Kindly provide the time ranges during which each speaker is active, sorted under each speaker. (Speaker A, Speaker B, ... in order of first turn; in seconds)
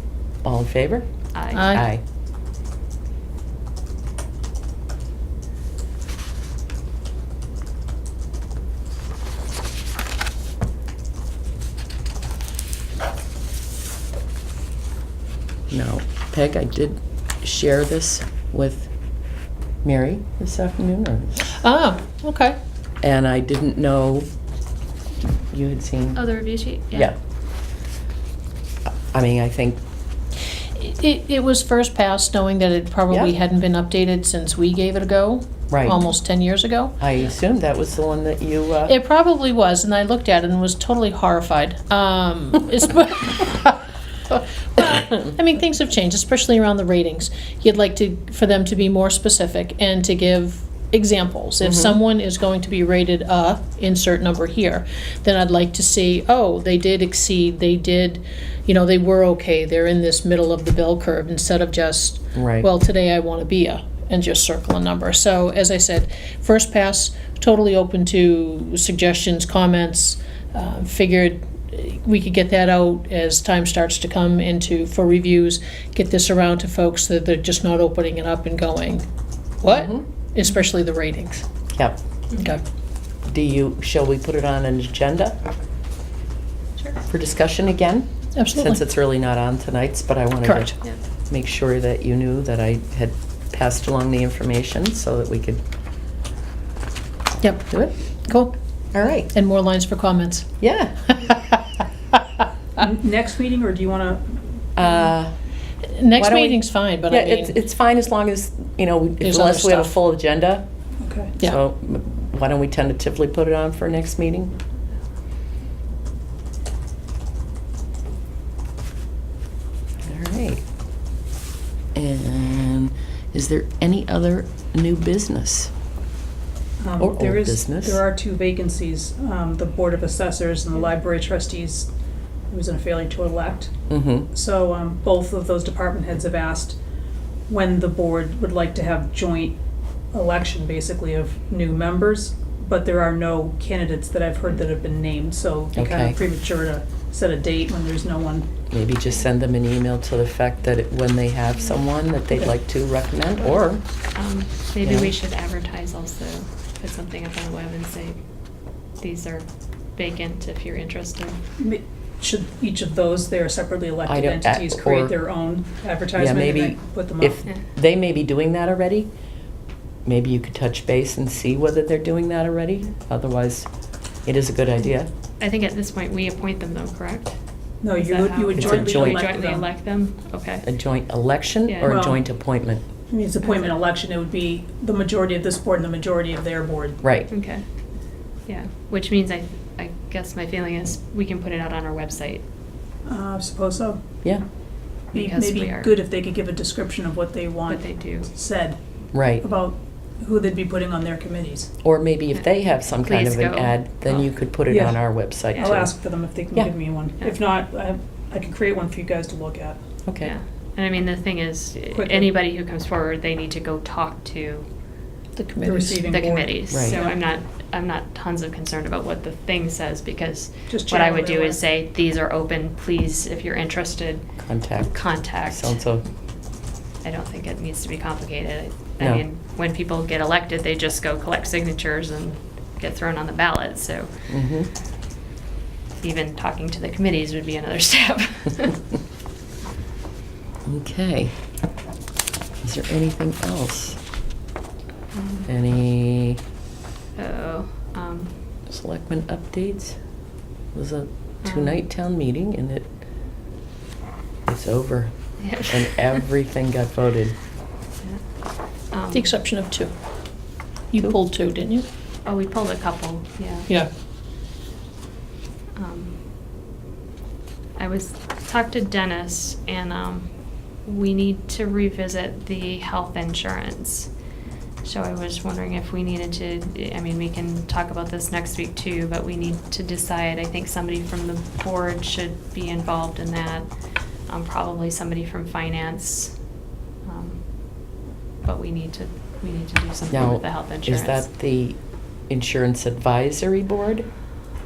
Speaker A: 0.4-2.0, 15.7-18.9, 19.8-21.4, 23.0-24.3, 25.5-26.2, 26.9-27.1, 29.1-29.8, 35.7-36.0, 37.0-38.9, 51.6-52.0, 62.3-62.7, 79.7-80.0, 81.7-82.0, 83.3-85.4, 87.1-90.8, 91.3-95.6, 98.9-99.3, 100.6-101.1, 104.8-105.3, 106.1-110.7, 111.4-114.5, 120.0-120.6, 121.9-125.7, 127.0-128.0, 133.9-134.3, 145.7-146.2, 148.7-153.8, 154.8-155.1, 164.1-165.2, 166.1-169.1, 170.1-173.7, 174.2-175.1, 178.6-179.2, 180.6-182.8, 187.0-187.3, 199.1-199.4, 201.8-205.9, 210.1-210.3, 216.7-217.0, 224.4-226.0, 234.3-234.7, 240.7-241.3, 242.6-244.0, 245.5-246.4, 248.7-250.0, 250.7-252.9, 254.5-257.4, 290.1-294.1
Speaker B: 1.3-1.8, 26.1-27.1, 154.1-158.2, 159.0-161.4, 175.4-180.7, 181.7-182.0, 183.4-183.8, 187.3-187.6, 188.4-192.4, 195.1-195.9, 197.7-198.3, 203.0-204.3, 210.2-214.7, 216.1-224.2, 224.9-225.8, 227.0-234.1, 236.0-238.8, 245.1-245.5, 247.2-248.3, 251.5-251.7, 255.4-256.1, 258.9-259.3, 262.2-263.7, 265.7-266.1, 267.8-274.1, 274.8-283.7, 284.3-291.2
Speaker C: 1.5-1.8, 21.5-22.6, 30.7-37.0, 38.9-79.0, 79.6-81.5, 82.4-82.6, 88.3-88.8, 90.4-90.8, 97.4-98.5, 99.2-100.6, 101.1-101.6, 105.9-107.5, 109.2-109.9, 215.3-216.1, 259.1-259.9, 260.9-261.9
Speaker D: 102.8-104.4, 111.0-111.3, 126.8-131.9, 132.5-133.7, 134.3-136.8, 137.5-139.6, 140.1-148.5, 161.6-167.4, 177.8-179.7, 181.8-182.3, 183.1-187.0, 193.0-194.0, 195.1-198.8, 199.3-201.7, 204.7-209.8, 211.9-212.3, 215.6-217.2, 220.7-221.6